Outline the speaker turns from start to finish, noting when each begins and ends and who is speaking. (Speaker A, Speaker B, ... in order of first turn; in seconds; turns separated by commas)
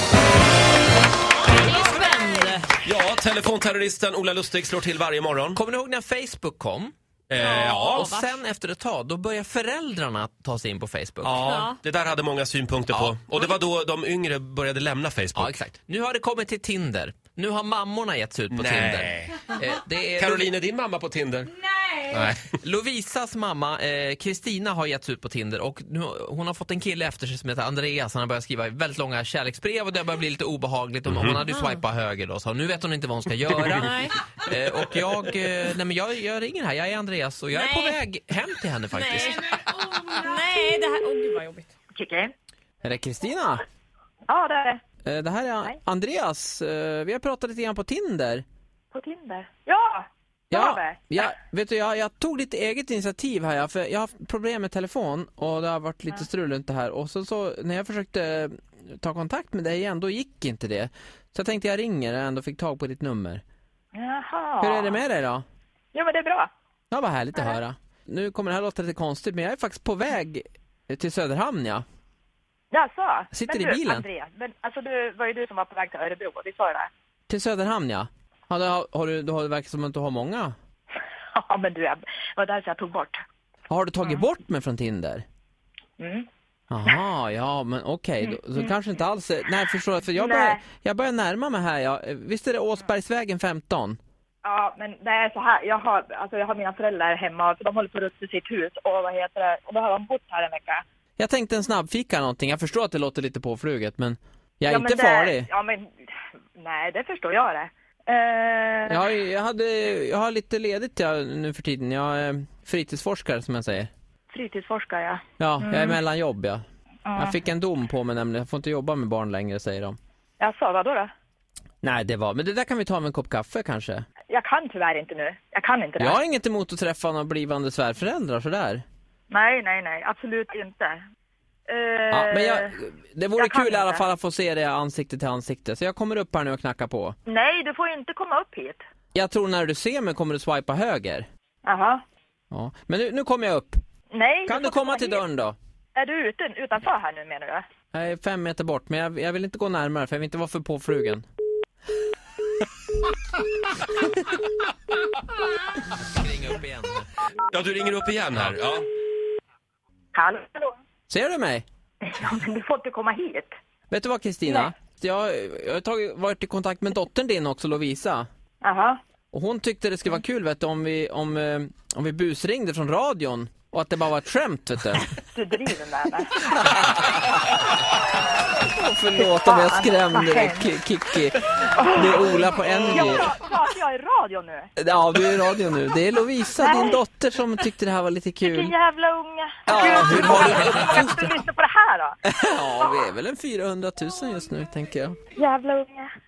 Speaker A: 1.5-2.7, Speaker B: 1.9-2.6, Speaker C: 2.8-5.6, Speaker A: 5.5-6.9, Speaker C: 7.3-8.1, Speaker B: 7.3-8.3, Speaker A: 7.8-11.4, Speaker C: 11.2-15.6, Speaker B: 11.4-11.8, Speaker A: 15.3-20.5, Speaker C: 18.5-19.4, Speaker C: 20.2-21.5, Speaker A: 22.1-39.5, Speaker C: 31.1-31.4, Speaker B: 31.5-31.8, Speaker B: 33.8-34.1, Speaker B: 37.5-38.0, Speaker B: 38.9-41.7, Speaker D: 41.9-42.3, Speaker A: 42.8-43.6, Speaker D: 44.3-44.8, Speaker A: 45.0-48.4, Speaker D: 48.9-51.0, Speaker A: 50.5-63.4, Speaker D: 63.9-65.0, Speaker A: 64.6-65.4, Speaker D: 65.9-66.5, Speaker A: 66.9-71.8, Speaker D: 72.7-76.9, Speaker A: 73.3-74.1, Speaker A: 77.3-80.5, Speaker D: 81.3-83.2, Speaker A: 83.7-85.2, Speaker D: 86.0-86.3, Speaker A: 86.7-94.0, Speaker D: 88.2-88.7, Speaker D: 90.2-90.6, Speaker D: 94.4-100.8, Speaker A: 101.2-105.5, Speaker D: 104.7-109.0, Speaker A: 108.9-113.9, Speaker D: 114.3-116.0, Speaker A: 115.4-116.6, Speaker D: 117.1-117.4, Speaker A: 117.2-120.0, Speaker D: 120.4-121.1, Speaker A: 121.8-124.0, Speaker D: 124.3-126.2, Speaker A: 126.0-128.8, Speaker D: 129.3-131.0, Speaker D: 131.7-132.7, Speaker A: 132.1-137.2, Speaker D: 133.4-134.1, Speaker D: 137.3-138.8, Speaker A: 139.2-141.3, Speaker D: 141.7-142.0, Speaker A: 142.5-143.8, Speaker D: 144.1-145.2, Speaker A: 144.5-145.6, Speaker D: 145.9-147.7, Speaker A: 147.9-151.2, Speaker A: 156.0-157.1, Speaker C: 157.5-158.9, Speaker D: 160.1-160.8, Speaker A: 161.1-161.6, Speaker D: 162.0-163.5, Speaker A: 163.9-168.3, Speaker D: 168.6-169.0, Speaker A: 169.3-175.1, Speaker D: 175.3-176.5, Speaker A: 176.4-177.6, Speaker A: 178.6-183.3, Speaker D: 179.1-180.7, Speaker D: 181.6-184.7, Speaker A: 184.8-188.7, Speaker D: 186.6-187.0, Speaker D: 188.4-192.2, Speaker A: 189.7-191.3, Speaker A: 192.2-195.2, Speaker D: 195.4-196.1